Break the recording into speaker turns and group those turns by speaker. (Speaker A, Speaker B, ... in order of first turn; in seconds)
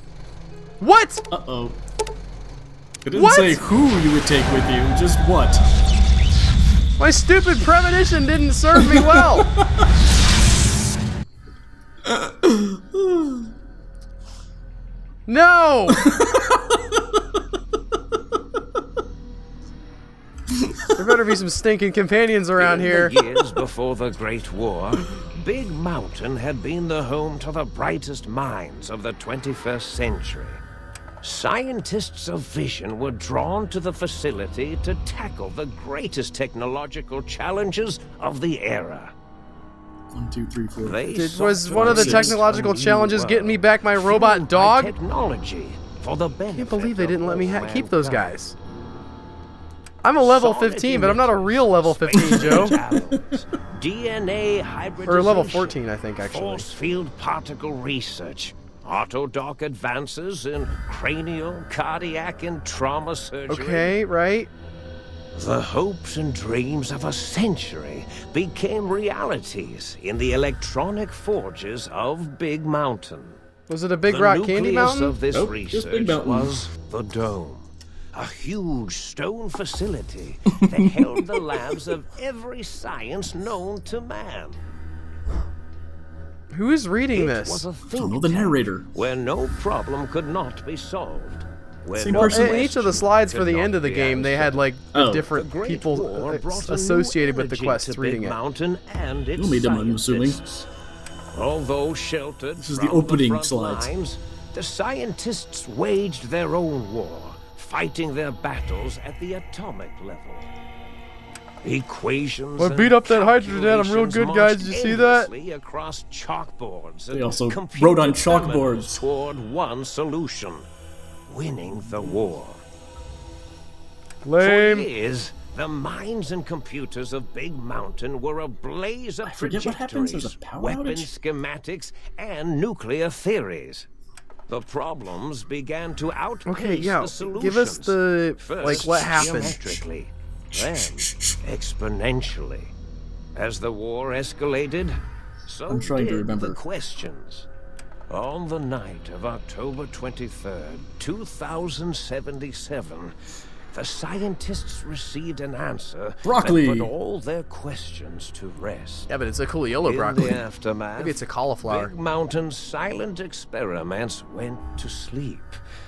Speaker A: 0.8-1.3, 3.1-3.6, 7.0-9.5, 15.3-16.1, 21.0-23.1, 41.1-45.0, 46.5-48.5, 50.0-52.8, 55.0-56.7, 63.5-64.5, 73.7-75.2, 86.5-87.6, 92.1-98.4, 112.6-115.3, 124.2-124.9, 136.5-139.8, 159.1-160.4, 161.0-161.9
Speaker B: 1.3-1.8, 3.0-5.6, 8.8-9.9, 12.0-13.5, 15.9-17.4, 20.5-20.9, 40.1-41.0, 41.6-43.0, 52.1-53.4, 75.3-76.6, 80.6-81.4, 87.9-88.9, 92.0-92.7, 94.9-95.3, 99.4-100.4, 102.6-103.9, 117.1-119.0, 129.2-131.1, 139.2-139.8, 140.5-141.4, 145.7-146.6, 156.2-156.9
Speaker C: 22.6-30.6, 31.2-39.1, 40.8-48.3, 50.2-63.9, 65.3-73.4, 74.1-84.6, 87.1-94.6, 95.3-100.7, 101.3-110.5, 111.6-120.7, 121.3-122.6, 124.4-133.9, 134.5-142.7, 143.3-147.5, 148.1-153.1, 153.7-159.1, 159.8-165.6